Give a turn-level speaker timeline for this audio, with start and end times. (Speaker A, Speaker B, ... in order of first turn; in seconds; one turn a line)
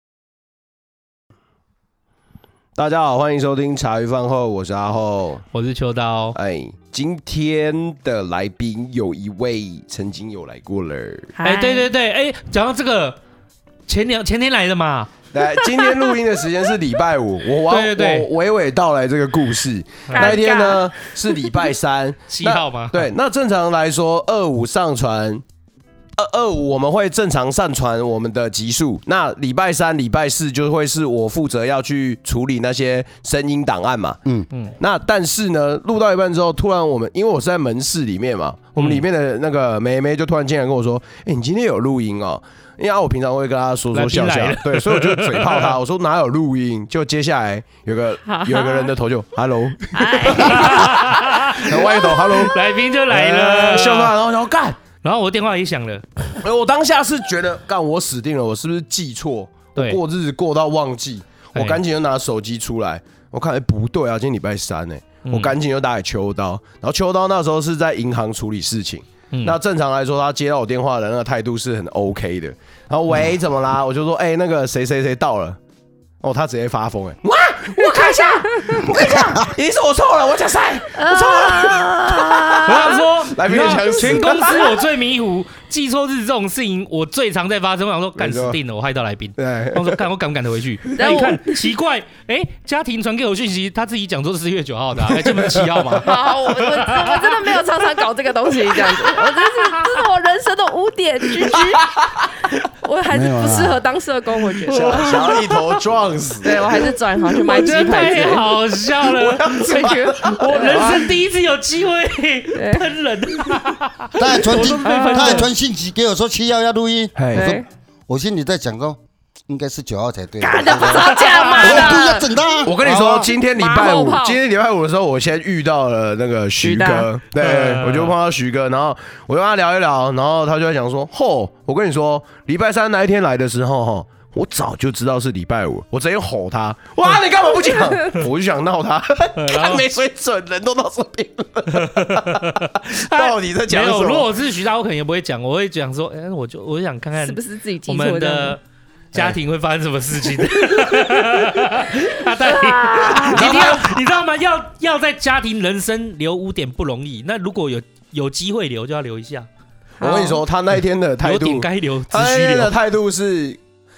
Speaker A: 2.8-5.4
Speaker B: 5.5-6.4
Speaker A: 6.3-11.3
Speaker C: 11.3-11.8
Speaker B: 11.4-13.2
Speaker B: 13.9-15.1
Speaker A: 15.3-25.4
Speaker B: 17.7-18.3
Speaker B: 20.1-20.4
Speaker C: 20.1-21.5
Speaker B: 22.3-23.1
Speaker A: 26.2-34.2
Speaker A: 34.8-54.8
Speaker B: 38.8-39.0
Speaker B: 43.9-45.7
Speaker C: 48.2-48.9
Speaker C: 49.9-52.5
Speaker B: 50.3-51.8
Speaker B: 52.4-54.1
Speaker B: 55.0-56.0
Speaker A: 56.4-75.6
Speaker B: 61.5-61.8
Speaker B: 65.2-65.5
Speaker B: 69.3-69.6
Speaker A: 76.2-84.8
Speaker B: 77.8-78.4
Speaker D: 78.8-79.5
Speaker C: 80.9-83.0
Speaker B: 82.6-97.3
Speaker A: 88.2-88.6
Speaker A: 89.4-90.0
Speaker A: 90.8-91.2
Speaker C: 91.0-91.6
Speaker A: 95.1-96.3
Speaker C: 96.0-102.0
Speaker B: 99.6-99.9
Speaker A: 101.4-102.2
Speaker C: 102.8-105.4
Speaker D: 103.1-103.8
Speaker B: 104.7-105.5
Speaker A: 104.7-106.8
Speaker C: 106.4-108.5
Speaker B: 107.3-115.5
Speaker A: 109.0-111.1
Speaker C: 109.6-110.9
Speaker C: 112.5-112.9
Speaker D: 114.2-123.3
Speaker A: 114.7-115.2
Speaker A: 117.2-117.5
Speaker C: 117.3-117.7
Speaker C: 120.4-122.3
Speaker B: 120.8-121.9
Speaker A: 122.6-144.3
Speaker C: 123.5-124.4
Speaker C: 126.6-127.1
Speaker B: 127.4-128.1
Speaker B: 139.4-139.8
Speaker B: 141.7-148.6
Speaker C: 147.1-148.6
Speaker B: 149.1-159.5
Speaker C: 150.6-151.0
Speaker C: 152.4-153.4
Speaker A: 153.1-154.0
Speaker C: 160.0-160.4
Speaker A: 160.0-163.6
Speaker B: 161.2-162.7